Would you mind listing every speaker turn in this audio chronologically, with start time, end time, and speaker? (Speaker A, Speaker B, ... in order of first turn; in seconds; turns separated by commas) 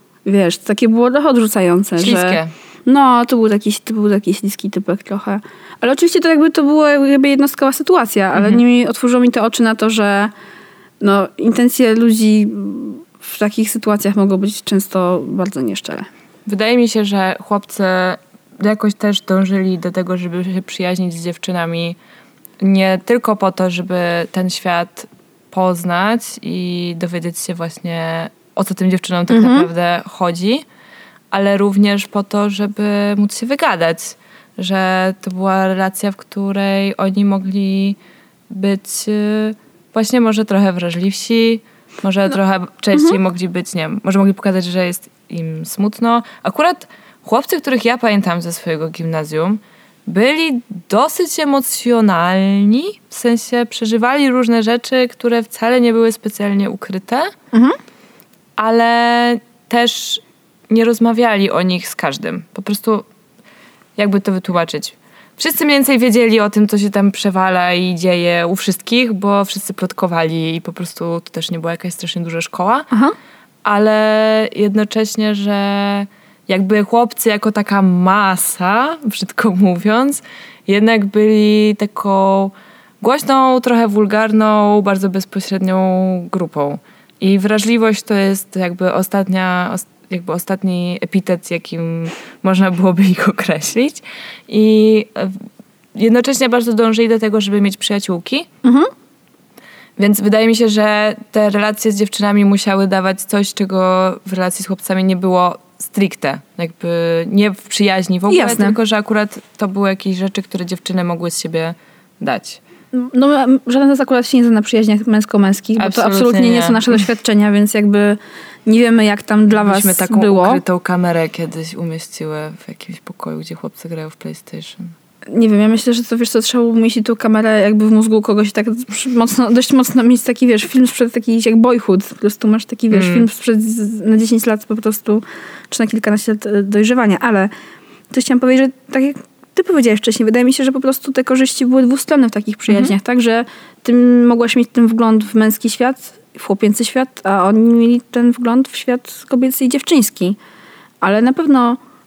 Speaker A: 0.2-10.3, Speaker B: 2.0-2.5, Speaker B: 8.3-8.6, Speaker A: 11.0-16.1, Speaker B: 16.5-22.0, Speaker B: 22.6-30.6, Speaker A: 29.3-29.7, Speaker B: 31.3-38.0, Speaker B: 38.5-57.3, Speaker B: 58.6-63.0, Speaker B: 64.0-72.9, Speaker B: 73.6-95.4, Speaker B: 95.9-98.5, Speaker A: 98.6-98.9, Speaker B: 100.0-112.6, Speaker A: 108.3-108.7, Speaker A: 112.9-120.6, Speaker B: 115.8-116.9, Speaker B: 119.5-124.9, Speaker A: 125.3-137.5, Speaker B: 132.9-133.3, Speaker A: 138.1-150.4, Speaker A: 151.0-151.8